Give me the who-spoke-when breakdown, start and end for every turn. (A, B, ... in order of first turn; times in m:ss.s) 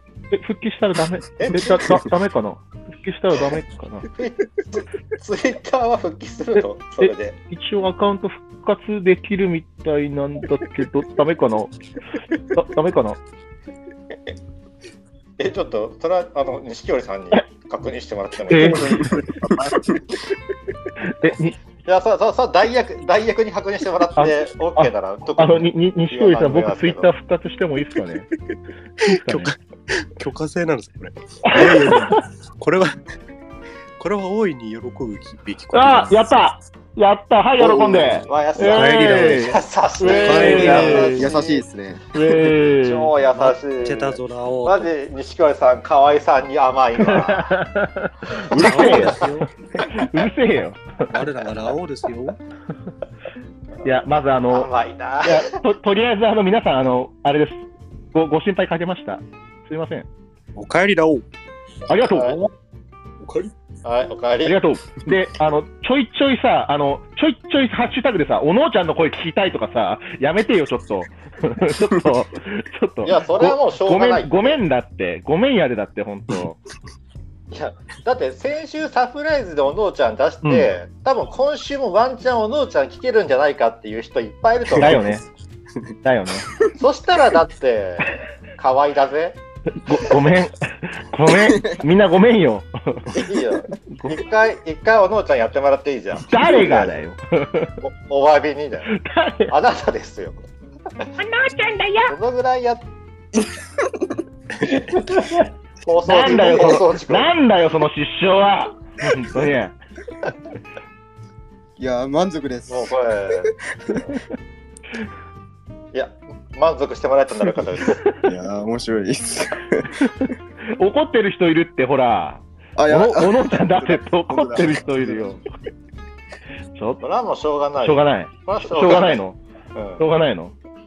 0:00.3-0:04.1 A
0:01.4-0:02.0 B
0:04.2-0:07.4 B
0:06.6-0:11.8 A
0:12.5-0:13.2 A
0:15.4-0:19.0 B
0:18.5-0:19.0 A
0:18.7-0:19.8 C
0:21.2-0:21.6 A
0:21.8-0:27.1 B
0:24.2-0:28.3 A
0:29.0-0:29.5 A
0:29.0-0:32.9 D
0:31.4-0:32.2 A
0:34.0-0:36.5 D
0:35.7-0:41.3 A
0:37.6-0:41.6 B
0:38.7-0:39.5 D
0:40.0-0:41.2 D
0:40.2-0:42.0 C
0:42.1-0:43.1 A
0:42.8-0:47.6 B
0:43.3-0:44.9 D
0:47.1-0:49.3 A
0:48.5-0:49.5 D
0:48.6-0:49.3 B
0:49.9-0:50.8 A
0:51.1-0:52.4 D
0:53.8-0:54.7 A
0:54.5-0:55.4 B
0:55.2-0:57.6 A
0:58.1-1:00.1 A
1:00.6-1:01.2 D
1:01.9-1:02.5 A
1:02.2-1:02.4 B
1:03.2-1:03.5 D
1:03.8-1:04.6 B
1:04.4-1:16.6 A
1:13.0-1:14.6 B
1:17.5-1:25.0 B
1:20.4-1:20.7 A
1:24.8-1:25.2 A
1:26.0-1:26.5 A
1:26.8-1:29.4 B
1:29.8-1:33.2 A
1:33.2-1:37.0 B
1:36.2-1:37.7 A
1:37.8-1:38.9 B
1:38.9-1:39.5 A
1:39.5-1:40.4 B
1:41.2-1:42.2 A
1:42.1-1:42.9 B
1:45.8-1:47.3 B
1:46.0-1:49.8 A
1:46.1-1:46.8 C
1:51.8-1:53.0 C
1:52.7-1:53.5 B
1:53.9-1:54.2 C
1:55.9-1:58.0 B
1:58.2-2:00.0 C
2:00.0-2:05.4 A
2:02.8-2:05.4 C
2:06.8-2:07.0 A
2:07.0-2:09.2 B
2:07.8-2:09.4 A
2:09.7-2:10.0 B
2:10.0-2:10.6 A